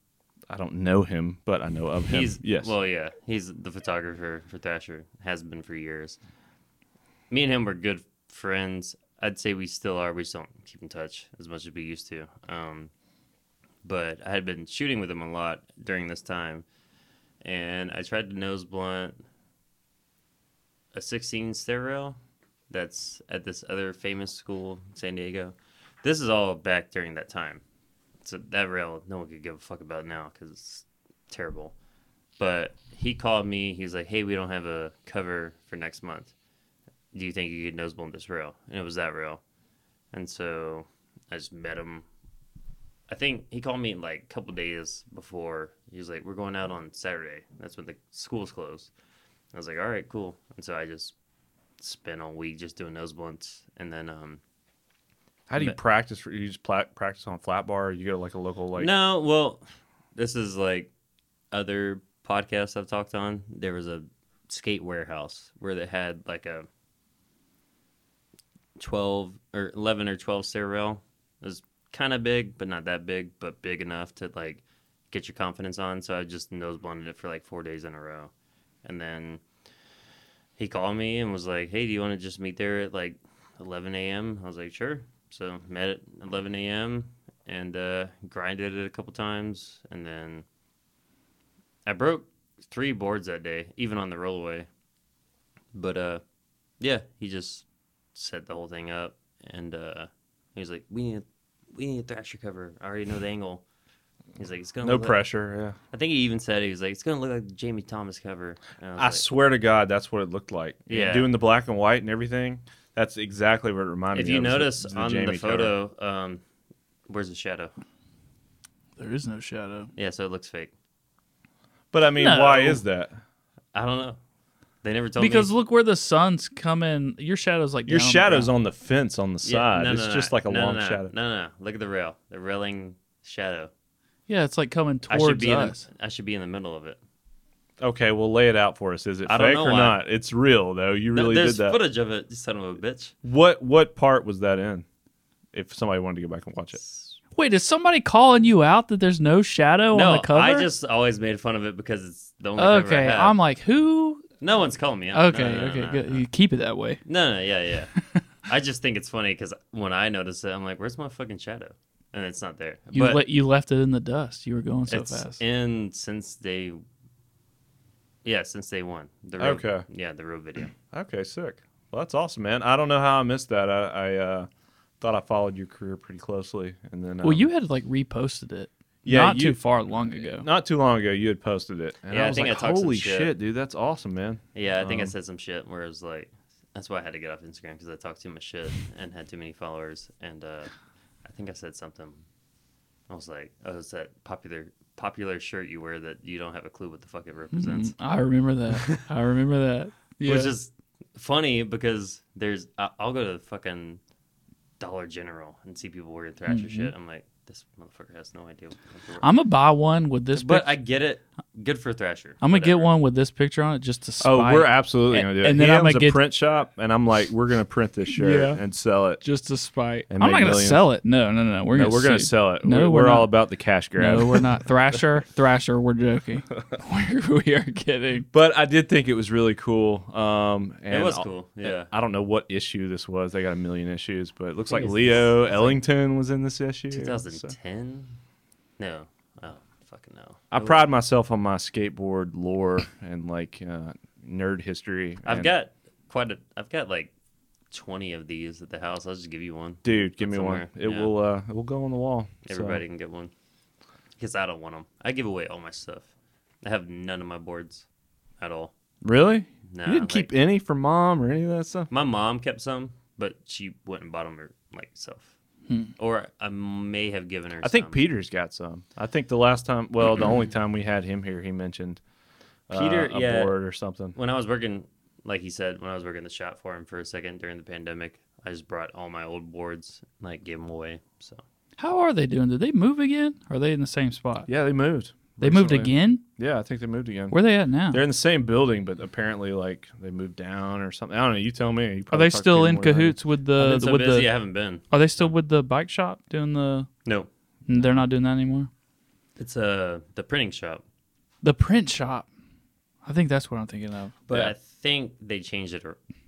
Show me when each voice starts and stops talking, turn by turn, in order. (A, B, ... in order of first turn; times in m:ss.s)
0:00.5-0:02.7 A
0:02.1-0:06.2 B
0:07.3-0:12.9 B
0:13.8-0:16.6 B
0:17.4-0:19.2 B
0:20.9-0:22.2 B
0:22.7-0:27.6 B
0:28.2-0:31.7 B
0:32.4-0:36.3 B
0:37.1-0:39.4 B
0:40.1-0:42.0 B
0:43.1-0:48.9 B
0:49.5-0:51.1 B
0:51.8-0:54.4 B
0:55.5-0:58.9 A
0:58.8-0:59.6 B
1:00.1-1:00.9 B
1:01.5-1:06.7 B
1:08.8-1:18.3 B
1:18.8-1:19.4 B
1:20.6-1:30.4 B
1:31.8-1:34.7 B
1:35.7-1:36.2 B
1:36.8-1:43.6 B
1:44.4-1:45.2 B
1:44.8-1:45.8 A
1:45.9-1:49.2 B
1:49.0-1:55.7 A
1:50.9-1:51.3 B
1:54.1-1:56.4 B
1:57.1-1:57.7 B
1:59.0-1:59.9 C
2:00.0-2:00.7 B
2:01.9-2:03.2 A
2:02.1-2:02.8 C
2:03.7-2:04.2 B
2:04.8-2:05.5 B
2:05.2-2:08.5 C
2:07.8-2:11.1 A
2:09.4-2:13.7 B
2:14.3-2:15.8 C
2:15.1-2:17.0 B
2:17.8-2:21.8 A
2:19.2-2:20.0 B
2:21.1-2:23.1 B
2:23.2-2:24.8 A
2:25.5-2:26.8 A
2:26.8-2:27.2 B
2:27.4-2:30.7 C
2:29.9-2:33.4 B
2:32.6-2:34.2 C
2:34.4-2:36.2 B
2:35.1-2:37.0 C
2:37.0-2:37.9 B
2:38.0-2:38.2 C
2:38.5-2:43.2 B
2:42.9-2:45.4 C
2:44.9-2:46.8 B
2:48.2-2:50.7 B
2:49.4-2:49.8 A
2:50.9-2:54.5 A
2:55.0-2:57.5 A
2:57.2-3:00.5 C
2:59.0-3:05.1 A
3:02.1-3:03.3 B
3:04.5-3:10.7 B
3:11.2-3:12.2 B
3:13.1-3:17.9 B
3:17.5-3:20.5 C
3:20.2-3:24.0 B
3:24.8-3:29.3 B
3:26.5-3:26.9 C
3:29.2-3:30.7 C
3:30.3-3:32.9 B
3:32.4-3:36.2 C
3:34.2-3:39.2 A
3:38.1-3:38.6 C
3:39.2-3:43.3 C
3:40.1-3:40.9 A
3:41.7-3:44.5 A
3:44.0-3:48.3 C
3:48.3-3:57.5 A
3:50.9-3:51.9 B
3:54.7-3:55.8 B
3:56.9-3:58.2 B
3:58.8-4:00.8 B
4:00.5-4:05.5 A
4:05.2-4:07.1 B
4:07.7-4:11.1 B
4:09.8-4:12.8 A
4:12.4-4:13.3 B
4:14.2-4:16.0 B
4:16.6-4:17.8 B
4:18.4-4:18.7 B
4:19.0-4:21.9 A
4:19.7-4:20.3 B
4:21.9-4:25.3 B
4:26.0-4:28.0 B
4:27.6-4:32.0 A
4:32.7-4:34.1 A
4:32.7-4:33.6 B
4:34.1-4:41.4 B
4:41.8-4:44.5 C
4:44.5-4:53.2 A
4:45.4-4:46.2 C
4:47.3-4:48.0 C
4:52.1-4:54.3 C
4:53.6-4:55.3 B
4:54.9-4:56.9 C
4:57.7-4:58.7 C
4:59.4-5:00.8 B
5:01.4-5:02.3 C
5:03.0-5:04.1 C
5:04.3-5:06.0 B